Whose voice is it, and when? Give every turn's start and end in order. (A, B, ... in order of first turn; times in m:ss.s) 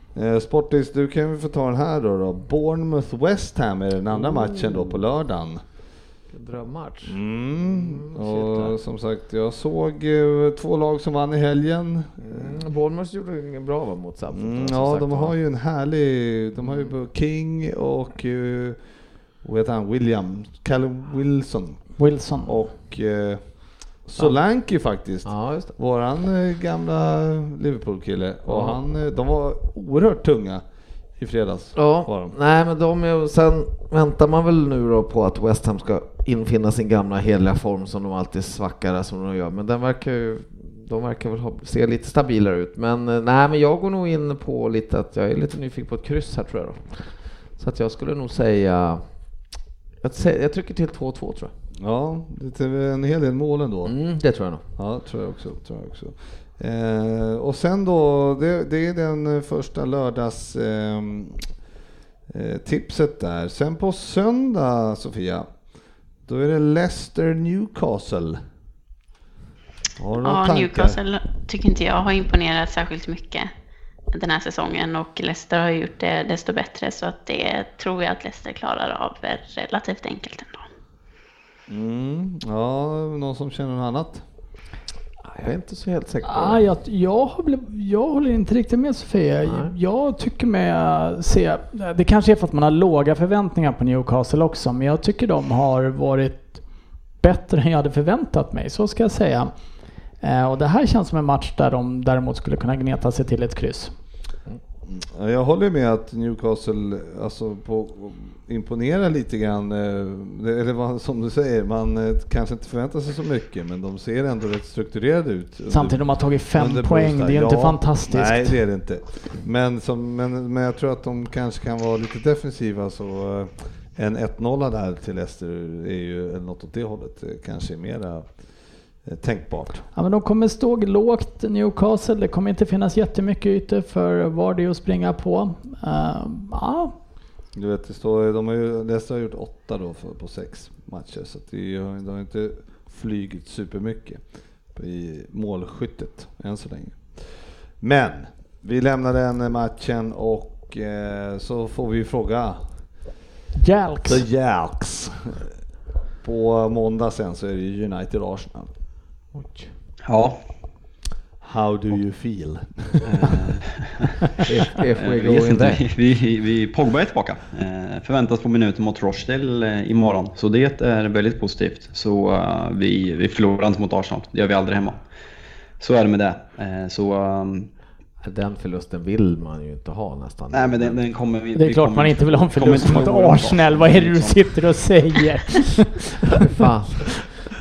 0:00.2-0:05.6 A
0:04.2-0:05.0 B
0:06.3-0:08.8 B
0:07.1-0:12.6 A
0:12.2-0:15.3 B
0:14.3-0:18.8 A
0:16.6-0:16.9 B
0:19.4-0:30.6 A
0:22.0-0:22.6 C
0:25.2-0:25.8 B
0:28.5-0:28.8 B
0:31.2-0:32.4 A
0:31.8-0:49.1 B
0:50.0-0:51.5 B
0:51.8-0:54.0 A
0:53.9-0:54.6 B
0:54.8-1:01.5 A
1:02.3-1:05.6 A
1:06.2-1:08.4 A
1:10.0-1:11.0 A
1:10.2-1:13.5 D
1:14.1-1:20.7 D
1:21.7-1:24.2 A
1:25.2-1:26.6 B
1:26.2-1:36.6 C
1:29.5-1:29.7 B
1:37.2-1:39.5 C
1:40.2-1:43.9 C
1:44.9-2:08.4 A
1:55.7-1:58.6 C
2:09.0-2:09.9 A
2:10.0-2:16.9 C
2:17.6-2:32.7 A
2:33.6-2:34.2 C
2:34.0-2:35.5 A
2:36.2-2:38.7 A
2:39.3-2:39.7 B
2:40.1-2:40.4 E
2:41.4-2:43.4 A
2:43.0-2:44.2 E
2:44.5-2:45.8 B
2:45.0-2:55.0 E
2:55.8-2:57.7 E
2:58.2-3:01.0 B
3:00.5-3:04.4 E
3:01.6-3:06.2 C
3:06.4-3:07.3 B